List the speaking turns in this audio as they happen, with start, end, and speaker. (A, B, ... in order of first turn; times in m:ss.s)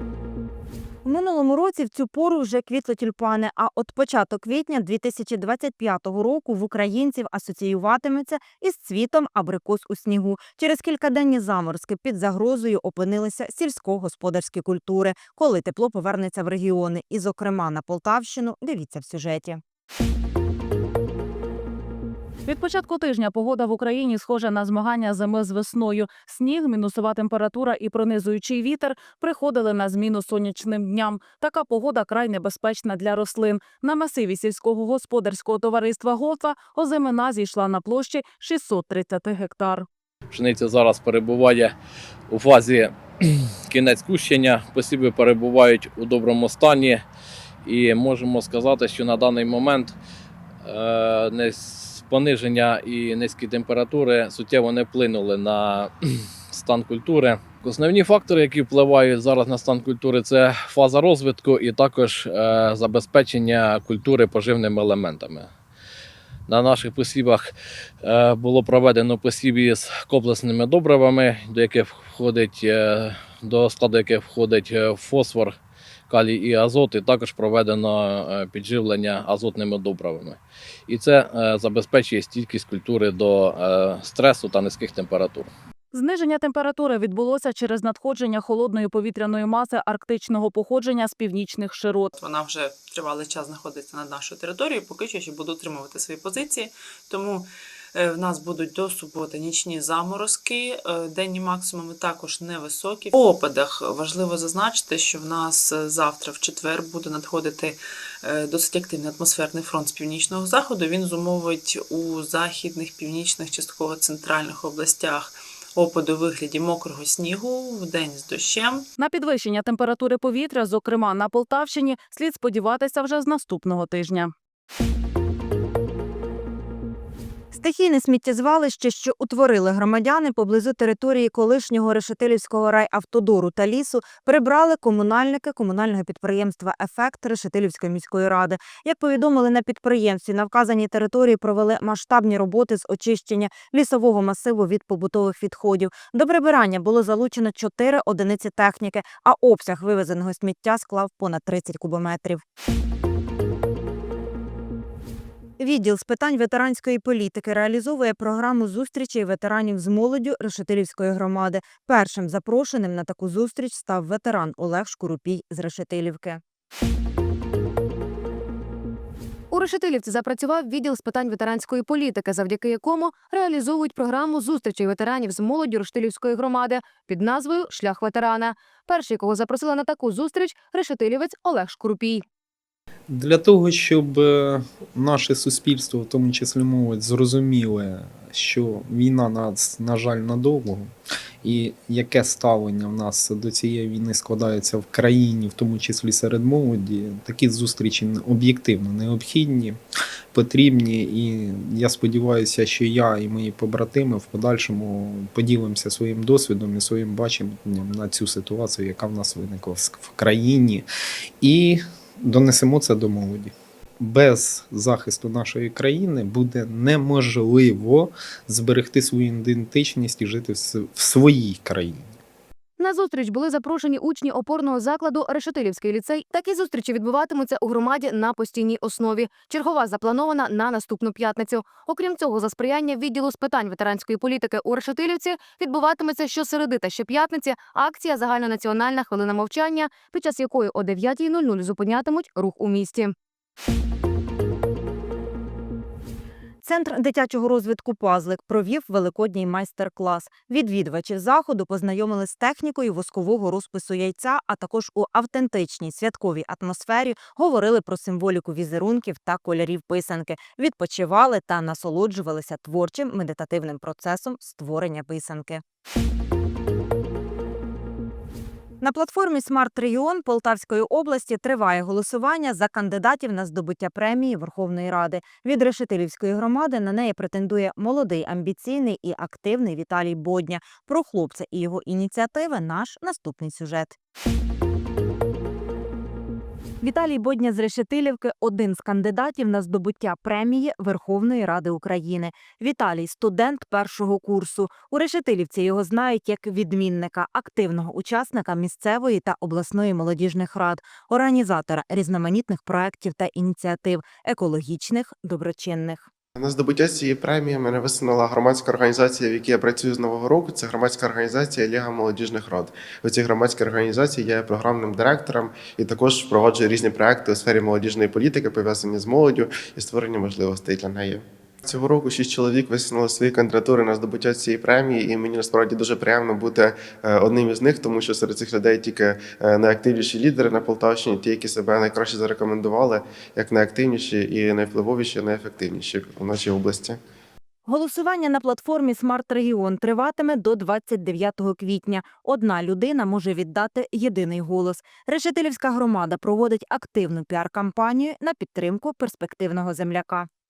0:01.0-0:19.6 A
0:22.4-0:39.9 B
0:40.3-0:41.7 C
0:42.3-0:47.0 C
0:47.6-0:50.0 C
0:50.6-0:55.9 C
0:56.5-1:05.5 C
1:06.5-1:07.5 C
1:08.0-1:15.6 C
1:16.1-1:25.5 C
1:25.9-1:32.1 B
1:32.1-1:58.9 D
1:59.0-2:04.3 B
2:07.5-2:32.4 A
2:35.6-2:46.4 A
2:49.5-3:02.2 E
3:03.1-3:30.9 F
3:31.4-3:42.2 F
3:42.8-4:03.2 E
4:06.6-4:25.6 A
4:28.8-4:44.0 A
4:46.8-5:06.1 A
5:06.4-5:37.0 G
5:37.7-5:50.3 A